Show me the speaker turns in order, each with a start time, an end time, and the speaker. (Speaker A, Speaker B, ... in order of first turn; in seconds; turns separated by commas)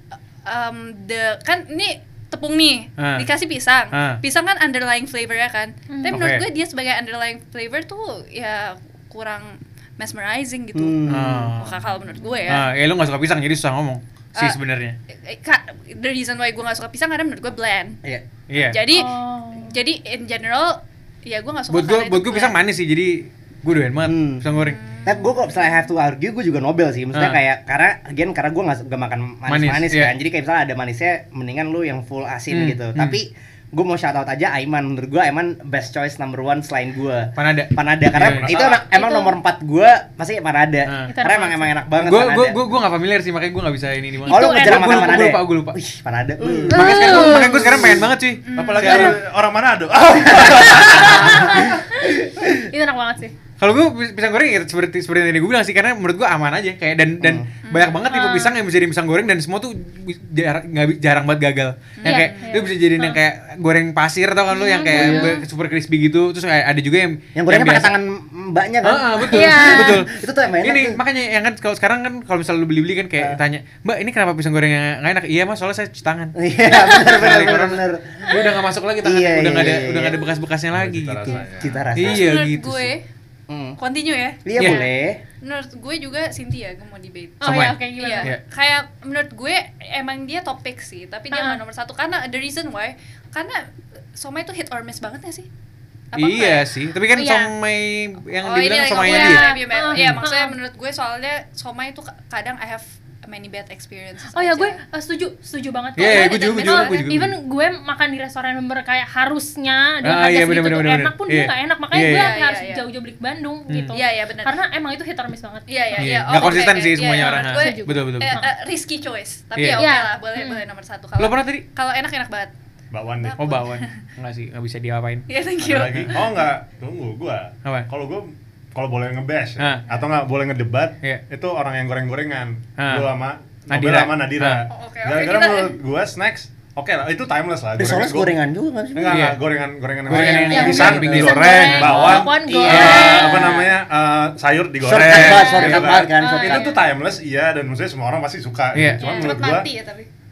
Speaker A: 0.5-12.7, Speaker B: 3.0-3.3, Speaker B: 3.9-4.2, Speaker C: 5.9-6.2, Speaker B: 6.1-6.5, Speaker D: 10.7-11.6, Speaker B: 11.1-11.8, Speaker C: 12.2-12.6, Speaker B: 12.5-15.0, Speaker A: 15.2-18.0, Speaker B: 18.5-18.8, Speaker A: 18.7-22.5, Speaker C: 18.9-19.7, Speaker B: 21.7-24.8, Speaker D: 24.1-24.4, Speaker A: 24.6-25.3, Speaker D: 25.0-42.6, Speaker B: 27.1-27.4, Speaker B: 29.5-30.1, Speaker B: 32.5-33.2, Speaker B: 37.4-38.6, Speaker E: 38.2-38.9, Speaker C: 38.8-39.4, Speaker B: 40.9-41.1, Speaker C: 41.1-41.7, Speaker B: 42.0-45.8, Speaker C: 44.3-45.1, Speaker D: 44.3-48.1, Speaker E: 46.4-46.8, Speaker B: 46.7-49.2, Speaker C: 46.7-47.7, Speaker A: 48.4-49.2, Speaker E: 48.5-51.8, Speaker D: 50.1-52.5, Speaker C: 50.6-53.3, Speaker B: 53.6-67.9, Speaker D: 57.2-57.5, Speaker A: 57.7-58.1, Speaker C: 58.1-58.6, Speaker A: 62.0-62.4, Speaker C: 62.0-63.2, Speaker C: 64.5-65.4, Speaker D: 64.9-65.3, Speaker D: 67.3-71.0, Speaker B: 68.8-76.3, Speaker C: 69.3-70.0, Speaker D: 76.4-78.3, Speaker C: 76.7-77.4, Speaker B: 76.9-82.9, Speaker D: 79.0-80.2, Speaker E: 80.7-81.9, Speaker D: 81.6-82.3, Speaker A: 82.0-83.0, Speaker D: 83.5-83.8, Speaker A: 83.8-84.4, Speaker D: 84.5-85.2, Speaker B: 84.6-84.9, Speaker C: 84.6-84.9, Speaker A: 85.4-93.6, Speaker C: 87.4-88.3, Speaker B: 87.4-88.4, Speaker C: 91.3-91.6, Speaker A: 94.2-95.5, Speaker A: 96.1-96.7, Speaker B: 96.2-100.3, Speaker C: 97.1-97.5, Speaker A: 98.4-104.8, Speaker C: 99.0-100.5, Speaker C: 104.3-116.4, Speaker B: 106.0-107.3, Speaker A: 106.0-107.1, Speaker B: 110.0-112.3, Speaker A: 112.0-112.8, Speaker B: 113.7-114.0, Speaker A: 113.9-114.5, Speaker A: 115.7-122.5, Speaker B: 116.0-118.4, Speaker C: 117.2-118.5, Speaker B: 119.6-119.9, Speaker C: 119.8-120.6, Speaker B: 121.2-121.7, Speaker E: 122.9-123.6, Speaker A: 123.2-124.0, Speaker B: 123.4-125.3, Speaker A: 125.3-126.5, Speaker E: 125.6-138.3, Speaker B: 129.6-129.8, Speaker B: 132.8-133.1, Speaker B: 133.7-134.7, Speaker A: 134.7-135.8, Speaker D: 137.8-139.2, Speaker E: 138.9-149.7, Speaker B: 139.1-139.4, Speaker B: 140.1-142.1, Speaker D: 140.1-143.7, Speaker C: 140.5-143.5, Speaker B: 142.7-143.6, Speaker D: 144.8-146.7, Speaker B: 145.0-145.9, Speaker C: 145.2-146.8, Speaker B: 148.7-149.3, Speaker C: 149.0-149.3, Speaker A: 149.2-150.1